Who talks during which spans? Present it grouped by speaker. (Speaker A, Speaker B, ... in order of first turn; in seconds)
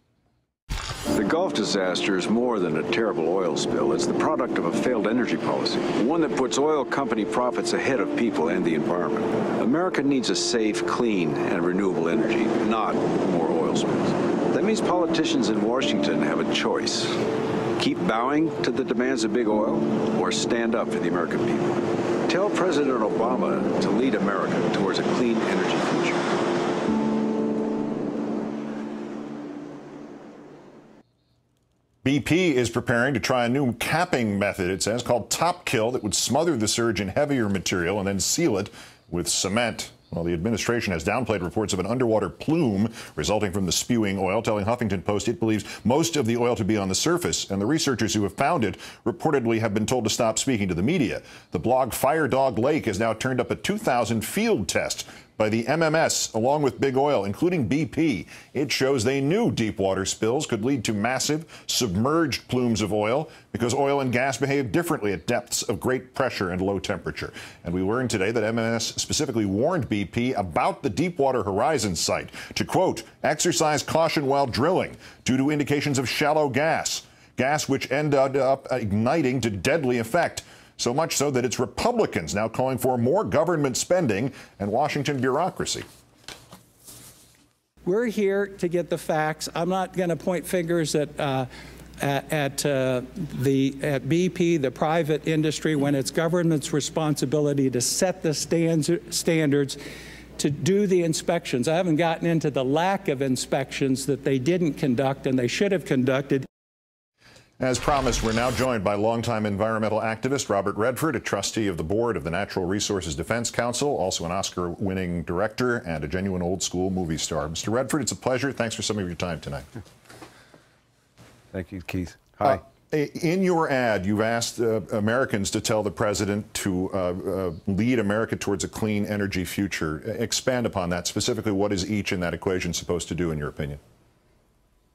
Speaker A: 1.1-26.2, 121.5-122.6
Speaker B: 32.0-85.8, 107.6-119.7, 122.4-133.8
Speaker C: 87.8-91.5, 92.0-99.8, 100.4-106.5